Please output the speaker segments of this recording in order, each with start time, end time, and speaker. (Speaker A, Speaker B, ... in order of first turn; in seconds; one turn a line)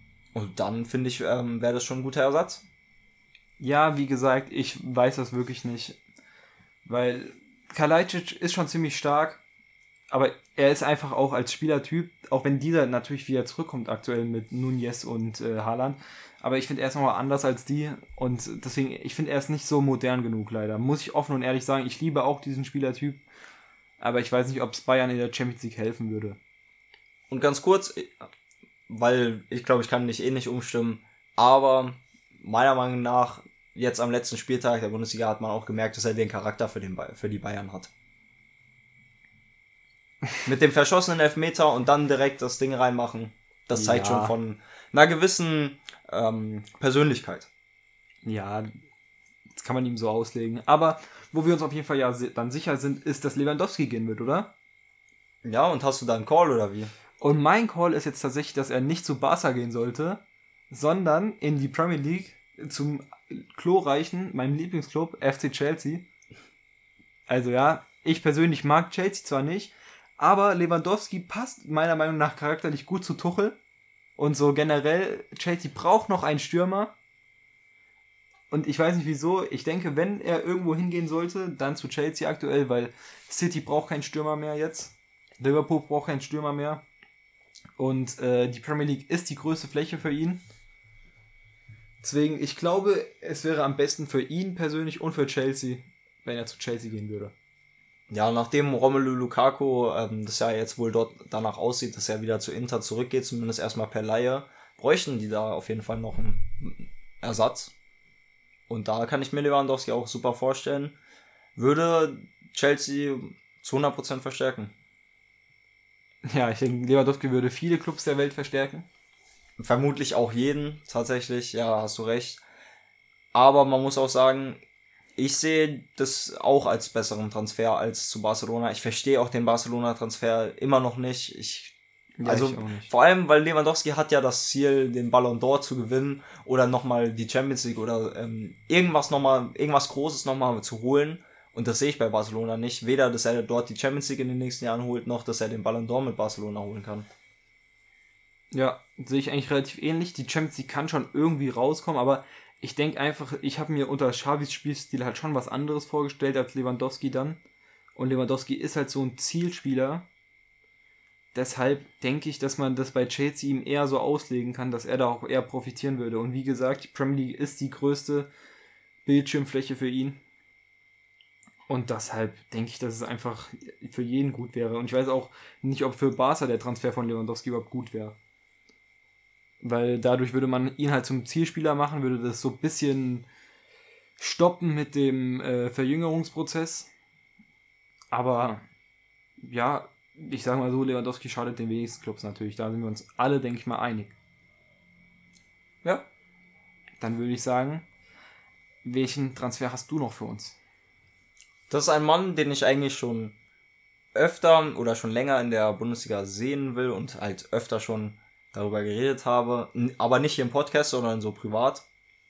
Speaker A: 0.3-2.6
Speaker B: 3.6-6.0
Speaker B: 6.8-9.4
Speaker B: 10.1-23.2
Speaker B: 24.0-26.4
Speaker A: 27.3-28.1
Speaker A: 28.9-37.9
Speaker A: 40.5-47.5
Speaker B: 43.8-44.4
Speaker B: 48.2-48.7
Speaker B: 49.5-54.5
Speaker A: 55.4-56.9
Speaker B: 57.2-66.1
Speaker B: 67.3-73.6
Speaker B: 74.2-76.9
Speaker B: 78.5-86.8
Speaker B: 87.8-90.4
Speaker B: 92.0-97.3
Speaker A: 98.1-107.7
Speaker A: 108.7-111.0
Speaker A: 111.6-114.7
Speaker B: 116.3-118.9
Speaker A: 119.6-122.4
Speaker A: 123.3-124.6
Speaker A: 125.2-147.1
Speaker B: 132.2-132.9
Speaker B: 148.5-157.4
Speaker B: 158.0-160.1
Speaker B: 161.3-168.3
Speaker B: 169.1-170.2
Speaker B: 171.7-178.2
Speaker B: 179.6-183.3
Speaker B: 184.2-186.9
Speaker B: 188.1-188.6
Speaker B: 189.4-194.1
Speaker B: 197.0-197.8
Speaker B: 198.8-200.6
Speaker A: 201.7-203.4
Speaker A: 204.1-211.8